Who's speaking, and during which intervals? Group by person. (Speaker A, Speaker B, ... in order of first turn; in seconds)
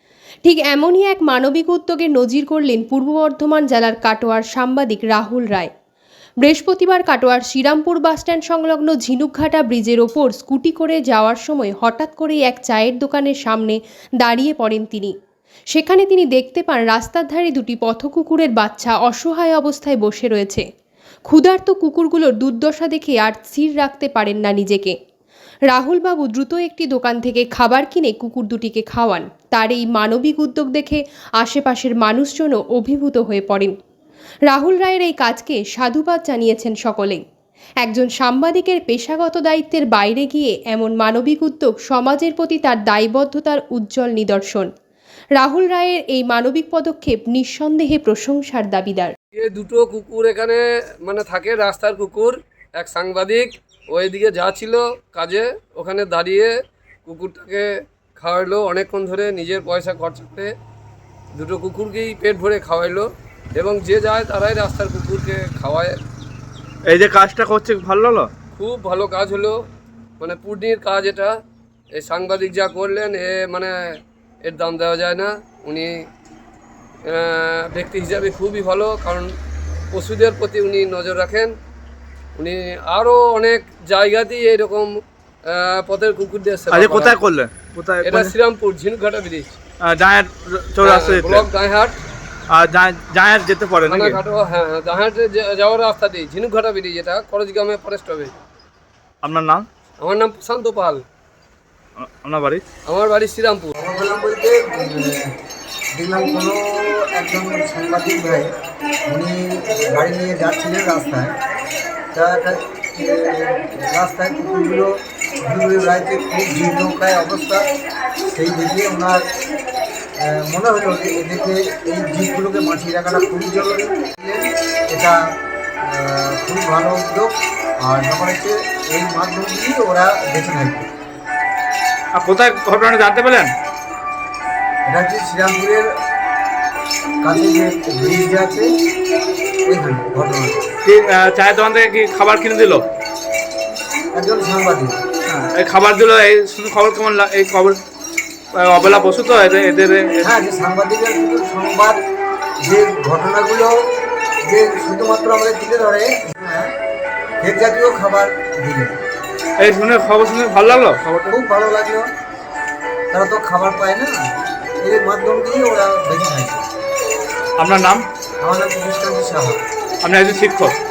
Speaker A: 0.4-5.7, 6.4-15.1, 15.7-20.6, 21.3-24.9, 25.7-33.7, 34.5-37.2, 37.8-44.7, 45.4-49.1
Speaker B: 49.3-56.5, 57.0-60.5, 61.3-66.0, 68.5-69.6, 70.2-71.3, 71.9-73.8, 74.4-76.0, 77.1-79.3, 79.9-81.5, 82.4-87.2, 88.0-89.5, 90.8-92.0, 93.8-98.3, 100.0-101.0, 102.8-103.7
Speaker C: 66.9-68.3, 86.7-88.3, 89.8-91.5, 92.5-94.2, 99.2-99.6, 102.0-102.6, 132.1-133.5, 140.8-142.8, 145.3-147.8, 148.5-150.2, 159.6-161.3, 167.6-168.0, 170.0-170.8
Speaker D: 103.8-105.3, 105.9-108.5, 109.1-111.4, 112.1-117.7, 118.2-119.2, 120.2-130.9, 134.9-135.9, 137.2-138.7, 139.7-140.7, 144.1-145.0, 150.2-152.0, 152.6-153.7, 154.4-156.7, 157.4-158.9, 161.3-162.1, 163.1-164.2, 164.8-166.6, 168.4-169.6